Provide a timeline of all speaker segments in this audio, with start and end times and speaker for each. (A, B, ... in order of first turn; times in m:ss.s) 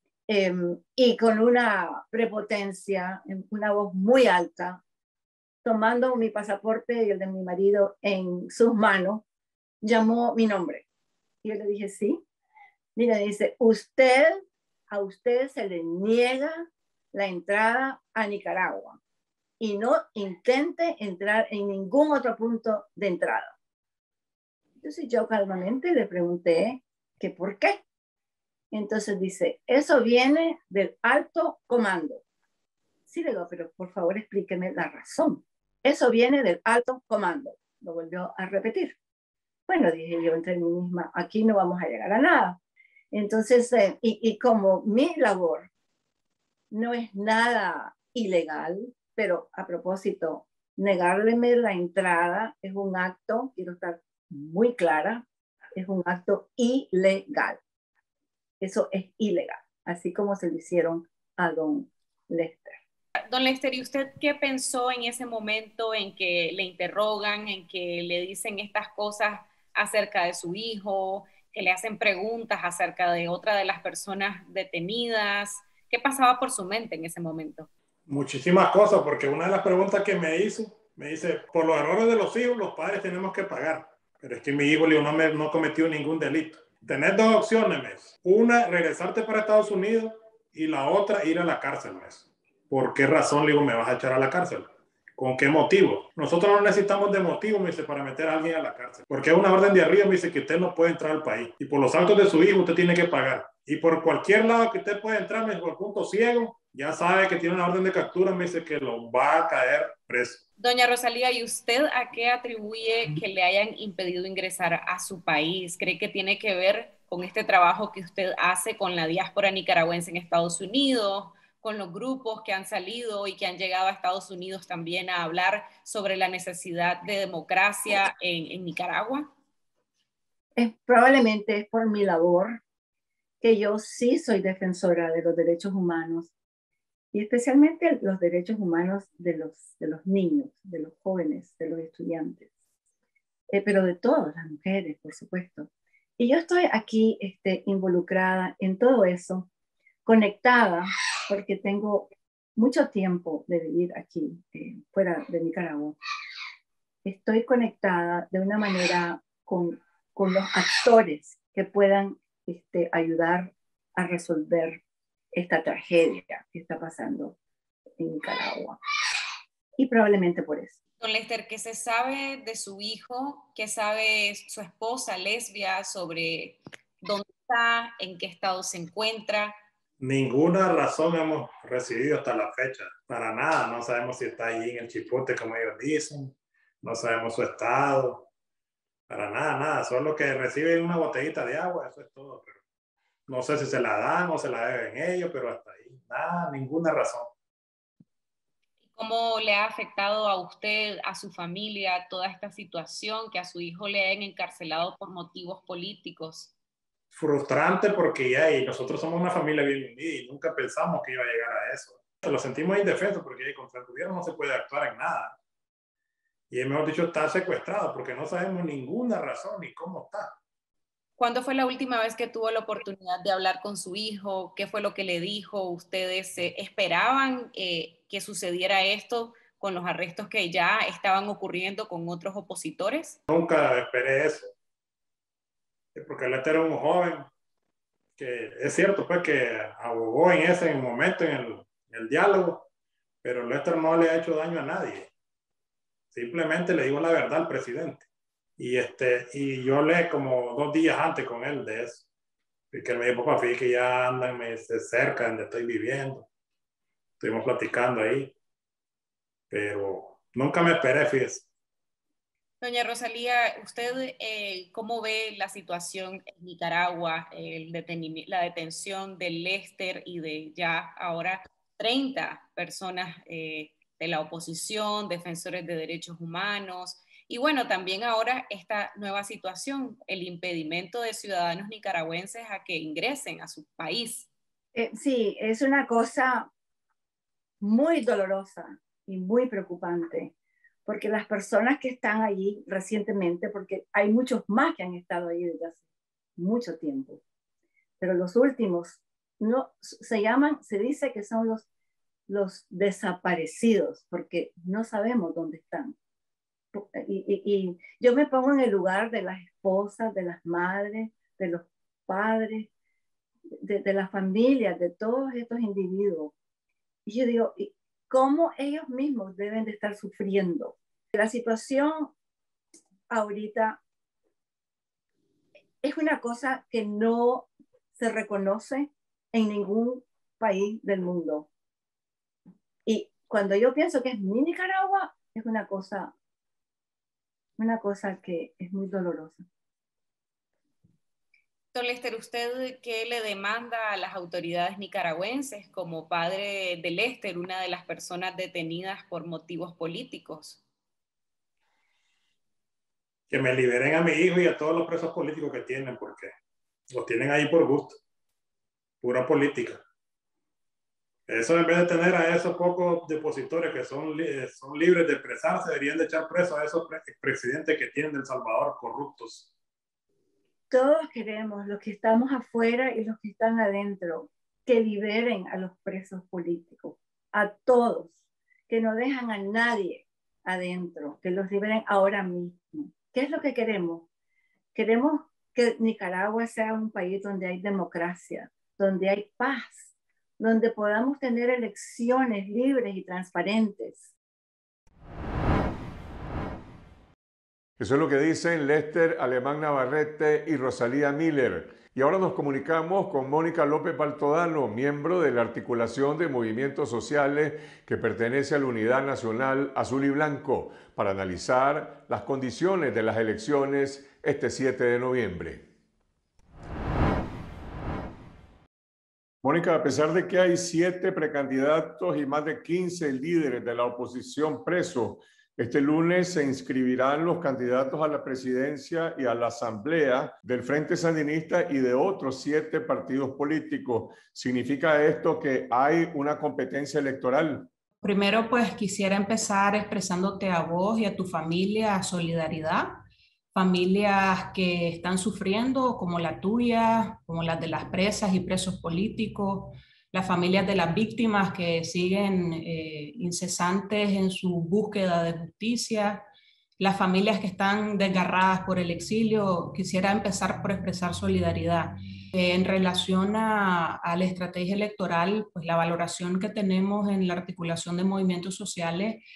0:00.3-0:04.8 A
0:05.6-0:09.2 A
0:09.8-0:10.8 A
0:11.4-0:12.2 A
0:13.0-0:19.0 A
0:19.6-0:23.5 A
0:24.8-0:27.8 A
0:28.7-0:32.2 A
0:33.1-0:39.0 A
0:39.7-0:42.6 A
0:43.1-0:45.7 A
0:46.7-0:55.2 A
0:55.8-0:57.6 A
0:58.6-1:02.8 A
1:03.3-1:17.7 B
1:18.1-1:50.4 C
1:50.6-2:09.3 B
2:10.6-2:12.6 A
2:13.4-2:16.3 A
2:17.1-2:22.5 A
2:23.5-2:29.5 A
2:30.0-2:36.0 A
2:37.0-2:44.8 A
2:45.3-2:47.4 A
2:48.0-2:48.8 A
2:49.8-2:50.8 A
2:51.0-2:59.6 B
3:00.0-3:08.3 C
3:09.1-3:12.6 C
3:13.3-3:17.3 C
3:18.9-3:26.5 B
3:27.1-3:35.4 C
3:36.5-3:40.4 C
3:41.2-3:53.2 B
3:53.3-3:54.5 C
3:56.0-3:57.3 C
3:58.2-4:02.6 C
4:03.2-4:05.1 C
4:06.1-4:08.1 C
4:08.6-4:12.1 C
4:12.7-4:16.3 C
4:17.2-4:18.3 C
4:19.5-4:21.5 C
4:22.6-4:44.3 B
4:44.7-4:46.5 A
4:47.6-4:50.3 A
4:50.9-4:55.8 A
4:56.4-4:57.2 A
4:58.0-5:01.6 A
5:02.3-5:06.0 A
5:06.7-5:12.7 A
5:13.6-5:16.3 A
5:17.1-5:22.1 A
5:23.1-5:23.8 A
5:25.8-5:31.5 A
5:32.9-5:36.1 A
5:37.6-5:39.4 A
5:41.7-5:50.6 B
5:53.3-5:56.3 C
5:56.9-5:58.0 C
5:59.0-5:59.8 C
6:01.3-6:09.5 C
6:10.7-6:18.1 A
6:18.7-6:24.1 A
6:24.7-6:34.1 A
6:37.8-6:55.6 D
6:59.4-7:17.7 D
7:18.0-7:23.0 E
7:23.5-7:36.2 E
7:36.8-7:49.2 E